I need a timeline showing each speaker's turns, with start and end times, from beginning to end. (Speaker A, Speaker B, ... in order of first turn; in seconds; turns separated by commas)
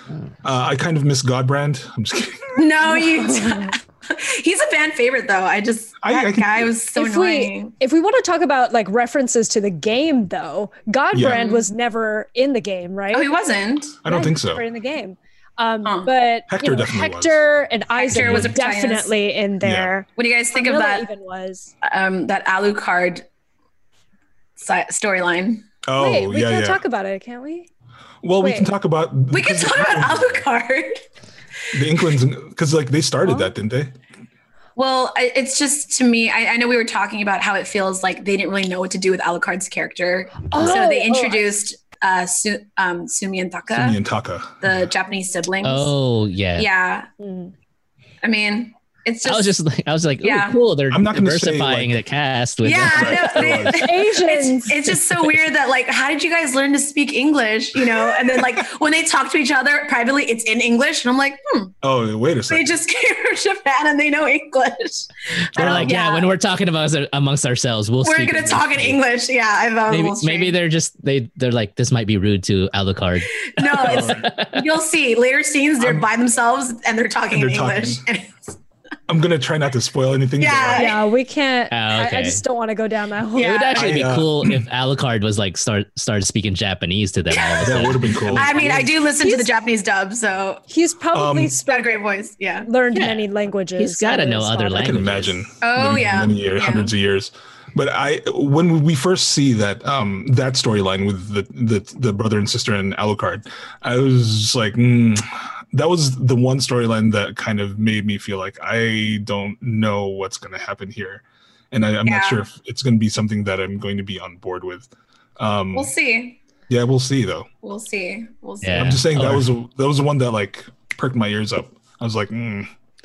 Speaker A: 0.4-2.6, Speaker B: 2.5-7.7, Speaker C: 2.9-3.7, Speaker A: 6.0-6.7, Speaker C: 6.9-13.3, Speaker A: 11.1-11.4, Speaker B: 11.3-11.7, Speaker B: 13.1-14.0, Speaker A: 14.0-14.7, Speaker C: 14.0-21.7, Speaker B: 15.8-16.1, Speaker A: 16.5-17.4, Speaker B: 17.9-19.1, Speaker A: 18.1-18.5, Speaker A: 19.6-19.9, Speaker B: 20.2-21.1, Speaker B: 21.8-23.2, Speaker B: 24.6-25.7, Speaker A: 25.8-26.8, Speaker C: 25.9-27.7, Speaker A: 28.2-30.4, Speaker C: 28.4-28.7, Speaker B: 29.3-31.0, Speaker A: 31.7-33.9, Speaker C: 33.2-33.5, Speaker B: 34.8-44.0, Speaker C: 40.5-41.5, Speaker A: 43.7-44.8, Speaker B: 44.6-45.9, Speaker D: 45.6-46.7, Speaker B: 46.5-47.1, Speaker C: 47.2-47.5, Speaker B: 48.2-49.5, Speaker D: 49.2-53.6, Speaker B: 50.2-50.6, Speaker A: 50.9-51.9, Speaker B: 52.6-61.7, Speaker A: 52.9-53.9, Speaker C: 53.8-54.9, Speaker A: 61.8-62.7, Speaker B: 62.5-66.3, Speaker D: 65.5-69.0, Speaker A: 65.6-66.0, Speaker B: 68.0-70.6, Speaker D: 69.9-74.7, Speaker B: 73.5-78.5, Speaker A: 73.9-74.2, Speaker A: 75.8-76.0, Speaker A: 77.3-78.0, Speaker A: 79.1-81.0, Speaker B: 80.4-81.0, Speaker C: 80.8-83.6, Speaker D: 81.7-82.4, Speaker B: 83.3-84.0, Speaker D: 83.4-88.8, Speaker A: 83.7-84.6, Speaker B: 87.3-90.6, Speaker A: 87.6-88.9, Speaker C: 89.2-89.5, Speaker C: 90.7-92.0, Speaker A: 91.1-91.6, Speaker B: 91.6-92.7, Speaker C: 92.6-95.0, Speaker D: 93.7-95.4, Speaker A: 94.8-115.9, Speaker B: 95.6-96.9, Speaker B: 112.0-112.4, Speaker B: 115.7-116.4, Speaker A: 116.7-117.5, Speaker B: 117.6-119.0, Speaker D: 118.6-119.5, Speaker A: 118.7-122.7